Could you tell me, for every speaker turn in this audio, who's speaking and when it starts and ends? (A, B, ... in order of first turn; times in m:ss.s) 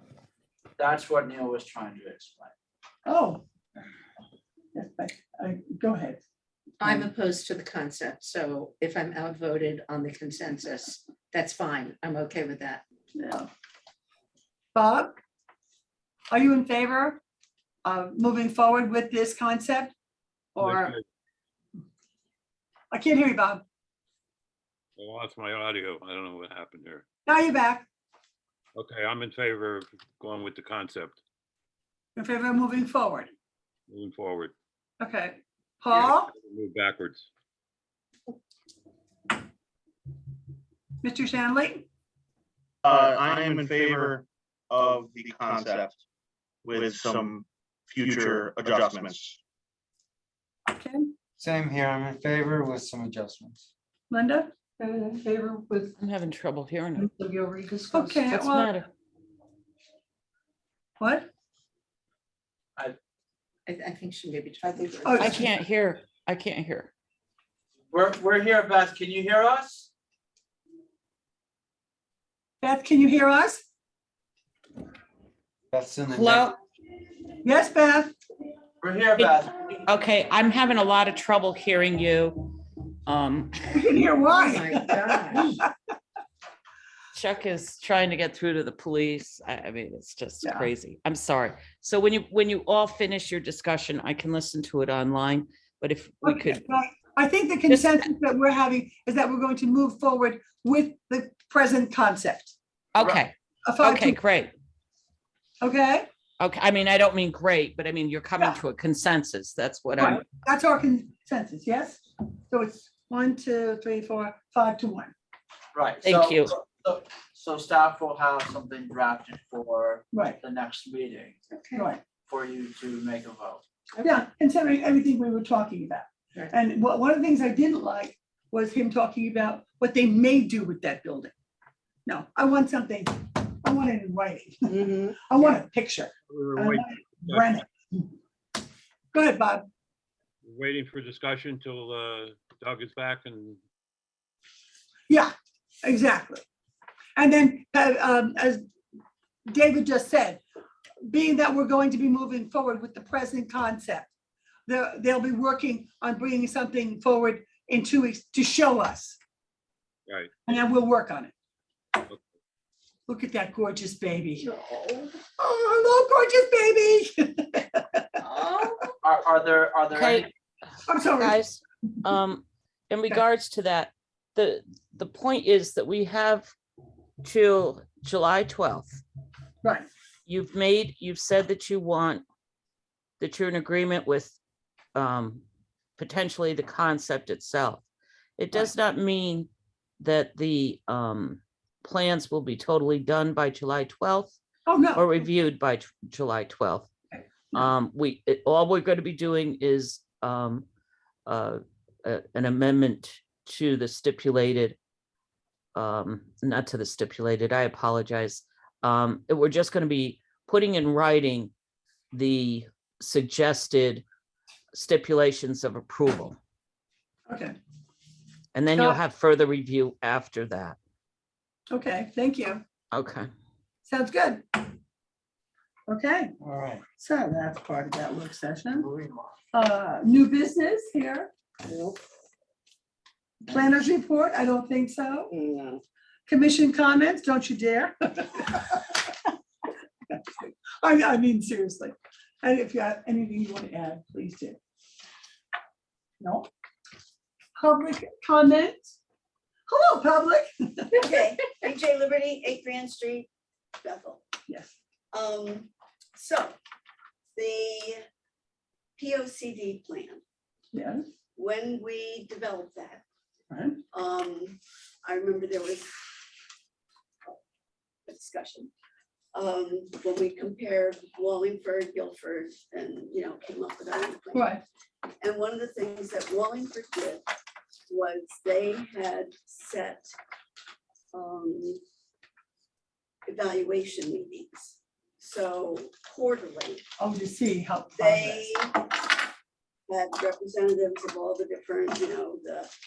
0:00.8-0:02.5 A
0:03.0-0:03.4 B
0:04.7-0:06.2 B
0:06.8-0:12.8 C
0:13.1-0:13.5 B
0:14.7-0:15.2 B
0:16.3-0:17.2 B
0:17.8-0:19.9 B
0:20.6-0:20.9 B
0:20.6-0:21.0 D
0:22.9-0:23.6 B
0:25.0-0:27.0 D
0:27.2-0:27.8 B
0:28.8-0:31.2 D
0:32.2-0:33.3 B
0:33.9-0:34.5 D
0:35.0-0:36.3 B
0:35.9-0:37.3 D
0:41.0-0:41.8 B
0:42.8-0:46.0 E
0:46.6-0:49.4 E
0:50.7-0:51.1 B
0:51.4-0:53.7 F
0:54.1-0:54.5 B
0:56.0-0:57.1 G
0:57.5-0:58.0 C
0:57.9-0:58.7 B
0:58.3-0:58.8 G
1:01.0-1:01.3 B
1:03.7-1:05.3 C
1:05.0-1:05.4 B
1:05.2-1:06.9 G
1:07.9-1:09.9 A
1:12.6-1:13.6 B
1:15.7-1:16.5 F
1:16.1-1:16.6 G
1:17.4-1:18.1 B
1:18.8-1:19.8 A
1:19.8-1:23.9 G
1:23.8-1:25.6 B
1:24.3-1:25.6 C
1:27.1-1:36.6 G
1:36.3-1:42.5 B
1:37.7-1:38.1 G
1:42.9-1:44.5 G
1:43.6-1:44.1 B
1:45.6-1:46.1 B
1:46.4-1:50.2 G
1:50.0-1:55.1 B
1:55.7-2:01.4 A
1:56.0-1:56.5 G
2:00.1-2:00.4 B
2:01.5-2:01.9 C
2:01.7-2:02.0 B
2:02.2-2:03.6 A
2:04.0-2:04.2 C
2:04.0-2:11.3 B
2:12.0-2:18.0 B
2:14.7-2:15.4 C
2:16.3-2:17.5 D
2:19.1-2:19.6 B
2:20.4-2:23.6 D
2:25.1-2:26.4 B
2:27.2-2:28.6 B
2:29.5-2:30.4 B
2:31.0-2:34.1 B
2:34.7-2:39.2 B
2:40.4-2:41.3 B
2:43.1-2:44.4 B
2:45.4-2:48.1 B
2:48.4-2:48.7 C
2:49.0-2:50.3 A
2:49.9-2:50.3 G
2:50.9-2:51.3 B
2:51.1-2:56.5 G
2:57.2-2:59.0 G
3:00.3-3:02.2 G
3:03.2-3:04.4 G
3:04.9-3:05.4 G
3:06.0-3:07.8 G
3:08.4-3:09.5 G
3:10.0-3:14.4 G
3:14.7-3:15.0 B
3:14.9-3:16.9 G
3:17.5-3:20.6 G
3:21.2-3:24.8 G
3:25.7-3:31.5 G
3:32.1-3:34.0 G
3:34.7-3:36.4 G
3:37.3-3:37.5 B
3:38.5-3:40.8 G
3:41.7-3:42.6 B
3:42.9-3:43.3 G
3:43.8-3:44.6 B
3:45.9-3:46.3 B
3:46.4-3:46.8 F
3:46.9-3:48.9 B
3:48.8-3:49.1 F
3:49.5-3:51.3 B
3:53.5-3:55.3 B
3:55.3-3:55.8 H
3:56.3-3:59.1 B
4:00.1-4:04.6 B
4:06.2-4:06.5 B
4:07.6-4:08.9 B
4:09.7-4:11.0 B
4:10.9-4:13.3 H
4:13.8-4:14.2 H
4:15.1-4:16.6 H
4:17.4-4:18.0 H
4:19.0-4:20.2 H
4:20.7-4:21.0 B
4:21.4-4:23.0 H
4:23.5-4:23.8 B
4:23.9-4:25.9 H
4:28.0-4:28.7 H
4:29.3-4:34.6 H
4:34.3-4:34.6 B
4:35.2-4:37.2 H
4:37.9-4:40.1 H
4:41.1-4:41.8 H
4:43.2-4:46.8 H
4:47.0-4:48.4 B
4:48.0-4:49.1 H
4:49.9-4:52.7 H